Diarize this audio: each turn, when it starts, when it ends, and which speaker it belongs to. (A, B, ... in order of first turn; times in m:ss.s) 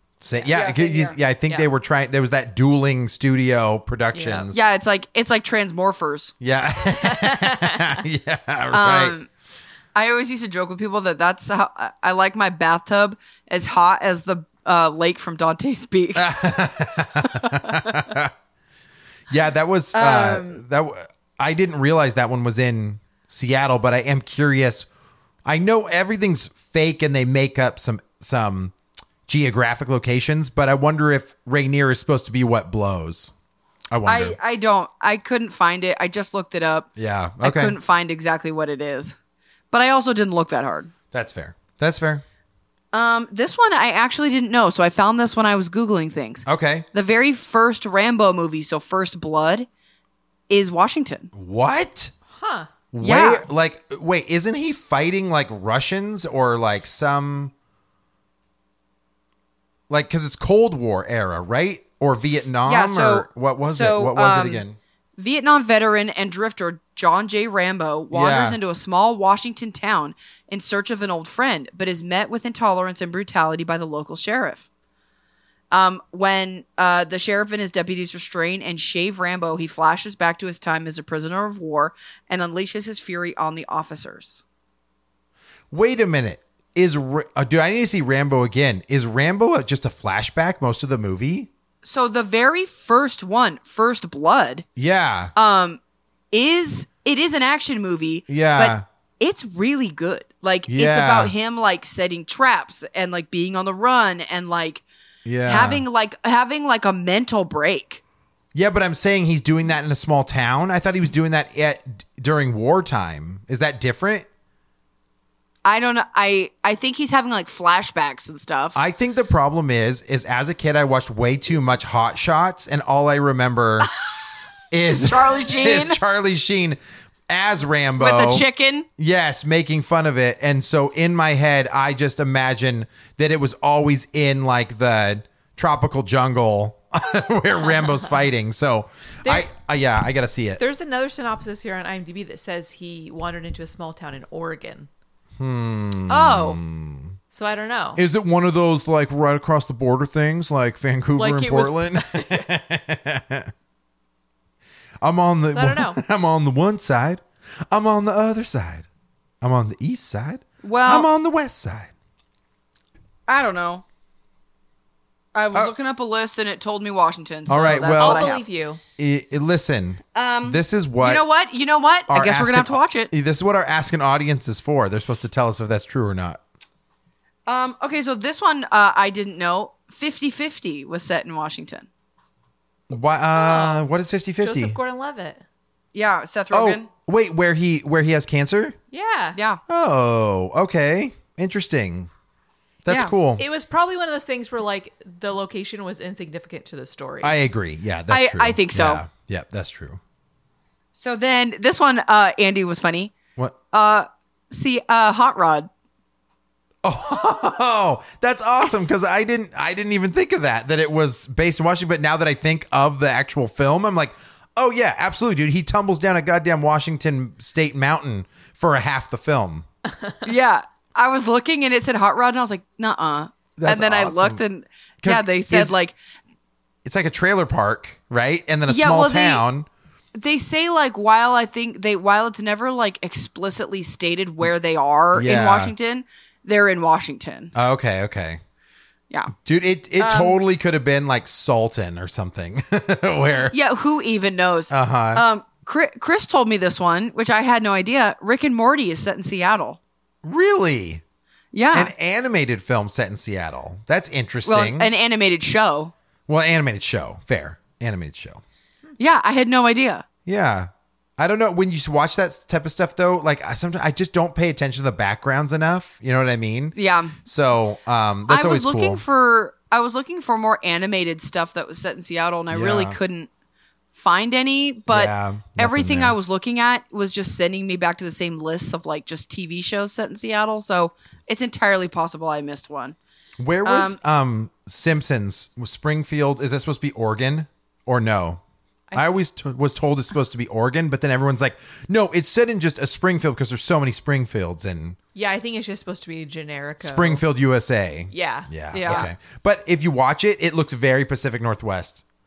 0:00.2-0:04.7 A
0:00.4-0:01.2 B
0:04.1-0:04.5 C
0:04.5-0:06.4 B
0:06.4-0:09.2 A
0:07.0-0:08.0 C
0:08.7-0:09.3 B
0:10.0-0:18.1 B
0:16.2-0:18.3 A
0:19.3-0:24.9 A
0:19.9-0:20.6 B
0:25.4-0:28.7 A
0:29.3-0:33.3 A
0:33.9-0:34.4 A
0:34.1-0:36.9 B
0:37.0-0:37.8 A
0:37.4-0:39.2 B
0:39.7-0:40.9 B
0:41.1-0:42.2 A
0:42.9-0:49.7 B
0:46.5-0:46.8 A
0:50.5-0:51.3 B
0:51.3-0:52.1 A
0:52.3-0:52.7 C
0:52.9-0:57.5 A
0:53.0-0:53.4 B
0:59.9-1:04.8 A
1:02.7-1:04.6 B
1:05.2-1:14.7 B
1:08.1-1:08.6 A
1:15.7-1:24.4 B
1:25.7-1:31.5 A
1:31.8-1:34.7 B
1:34.8-1:35.3 A
1:35.4-1:35.8 B
1:36.3-1:44.8 B
1:38.3-1:38.8 A
1:40.7-1:41.3 A
1:45.3-1:45.8 A
1:45.5-1:48.0 B
1:48.6-1:54.3 A
1:55.6-1:58.8 B
1:58.8-2:03.9 A
2:04.7-2:08.5 A
2:04.9-2:06.0 B
2:08.0-2:08.9 B
2:09.0-2:20.6 A
2:20.6-2:24.9 C
2:25.4-2:27.2 A
2:26.1-2:26.6 B
2:27.3-2:28.0 C
2:28.0-2:33.5 A
2:31.2-2:32.5 C
2:35.0-2:38.9 A
2:35.5-2:36.0 C
2:39.4-2:41.9 A
2:40.6-2:41.1 B
2:43.3-2:43.8 B
2:45.3-2:48.4 B
2:47.5-2:48.3 A
2:48.0-2:48.8 C
2:49.0-2:51.2 A
2:50.1-2:53.1 B
2:52.1-2:56.4 A
2:57.5-3:01.9 B
3:02.9-3:04.8 A
3:03.4-3:03.8 C
3:04.4-3:05.4 C
3:05.9-3:06.9 B
3:06.5-3:08.8 A
3:08.9-3:09.4 C
3:09.4-3:09.6 B
3:09.7-3:12.1 A
3:12.8-3:13.4 A
3:13.4-3:17.4 C
3:17.2-3:20.0 A
3:18.1-3:19.0 B
3:21.0-3:23.1 B
3:23.7-3:25.7 B
3:26.8-3:39.7 A
3:39.9-3:40.3 C
3:40.2-3:45.9 B
3:43.6-3:44.4 A
3:45.0-3:45.7 A
3:46.8-3:49.7 A
3:48.7-3:49.4 B
3:50.2-3:57.5 B
3:55.2-3:55.7 A
3:57.5-3:58.4 A
3:59.4-4:03.6 A
4:00.0-4:00.4 B
4:03.5-4:09.8 B
4:04.7-4:05.2 A
4:10.2-4:11.0 A
4:11.5-4:11.9 B
4:11.7-4:14.9 A
4:14.5-4:15.9 B
4:16.3-4:18.4 A
4:19.0-4:20.1 B
4:20.3-4:29.0 A
4:26.8-4:27.2 B
4:28.3-4:33.3 B
4:32.5-4:33.0 A
4:33.9-4:43.0 B
4:34.9-4:36.2 A
4:43.4-4:48.4 A
4:43.6-4:44.0 B
4:48.9-4:49.2 C
4:49.0-4:55.0 A
4:55.2-4:57.2 C
4:56.8-5:02.0 A
4:58.1-4:59.1 C
4:58.7-4:59.1 B